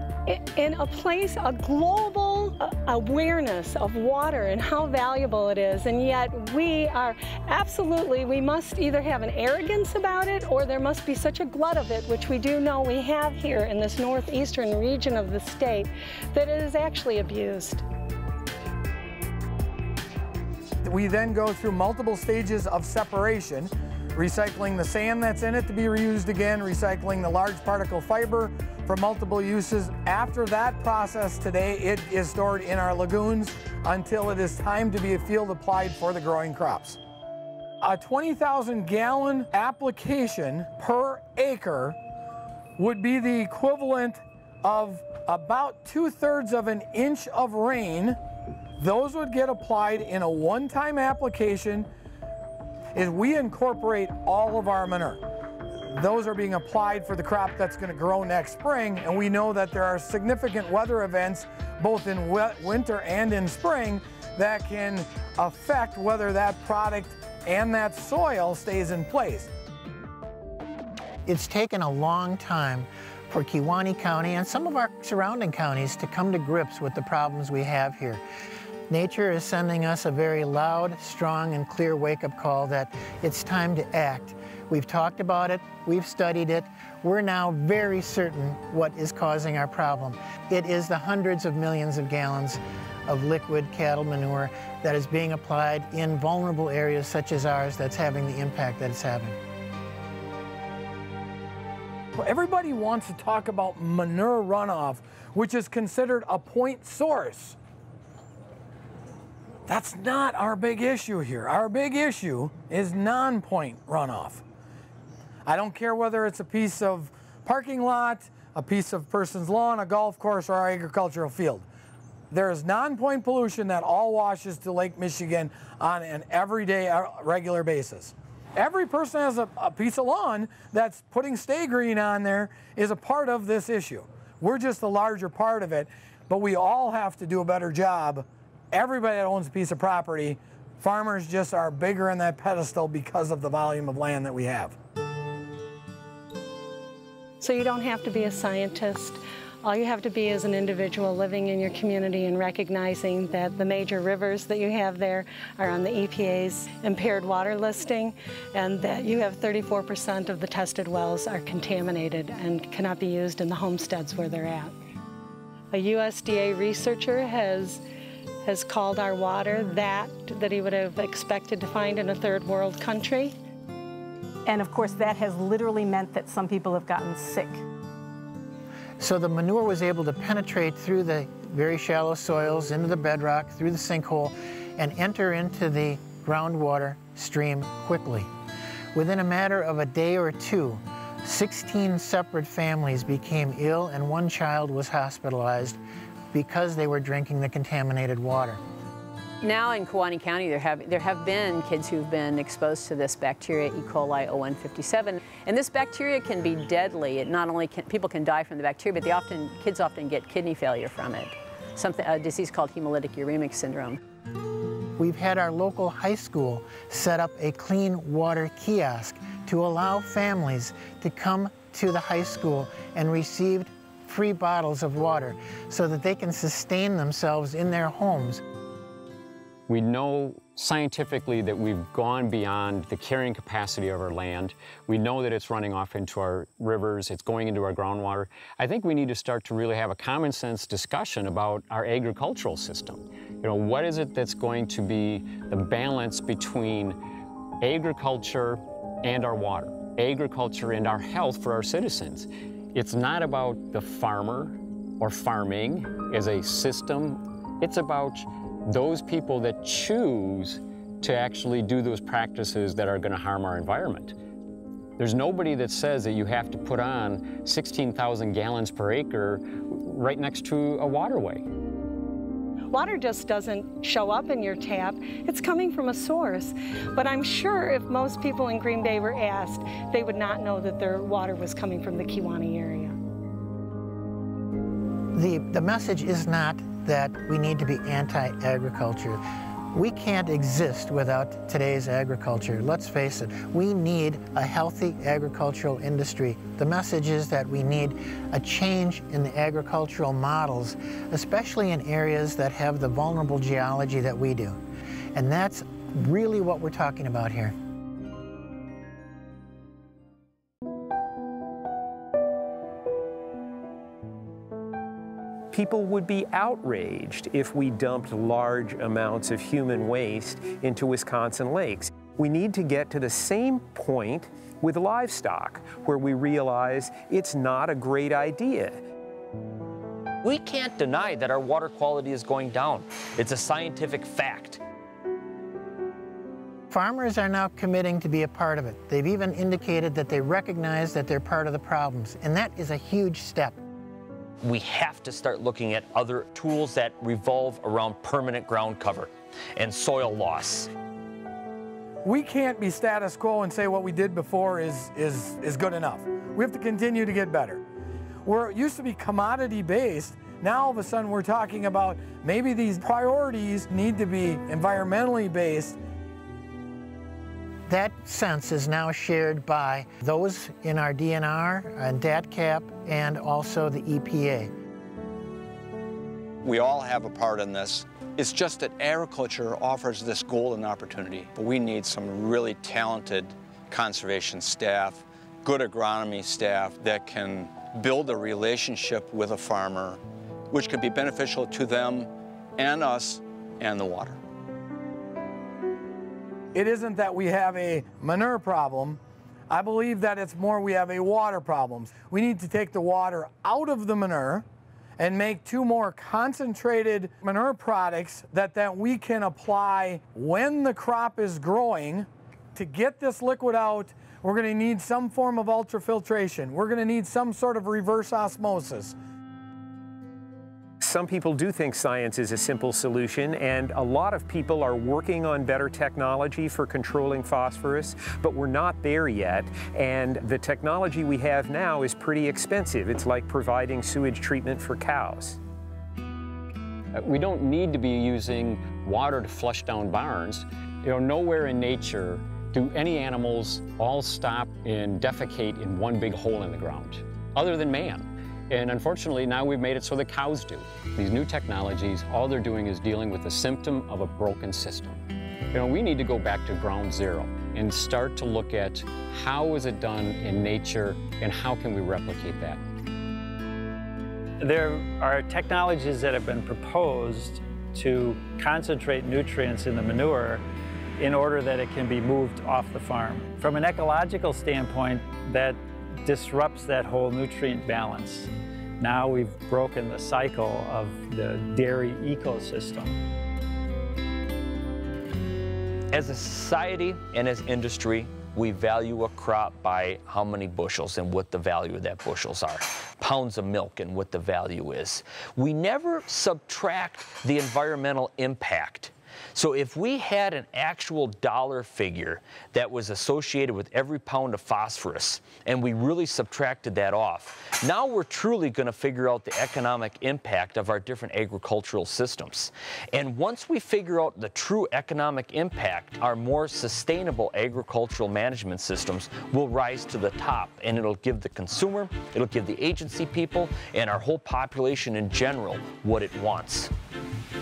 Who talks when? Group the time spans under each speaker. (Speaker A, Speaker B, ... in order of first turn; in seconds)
Speaker A: 0.3-17.8, 147.4-164.7, 165.7-167.8, 168.4-173.3, 272.7-282.9
Speaker B: 20.8-37.0, 37.8-42.0, 42.8-48.2, 48.8-51.9, 52.9-55.2, 55.8-69.5, 102.2-107.6, 109.7-114.4, 115.5-121.7, 122.3-144.8, 352.0-357.6, 358.2-365.8, 396.5-399.0, 399.5-404.4, 405.0-418.9
Speaker C: 71.2-78.2, 78.9-99.3, 179.0-188.3, 188.9-195.8, 196.3-198.6, 215.0-228.4, 285.1-289.2, 289.7-304.6, 305.1-307.5, 336.7-343.6, 367.7-374.5
Speaker D: 174.4-177.6
Speaker E: 199.4-214.0
Speaker F: 229.7-247.0, 247.6-264.1, 265.0-271.4, 436.9-462.6
Speaker G: 315.5-328.8, 420.8-435.4
Speaker H: 330.2-334.6, 344.4-350.7, 485.9-526.7
Speaker I: 376.4-394.2
Speaker J: 464.4-470.4, 471.0-483.0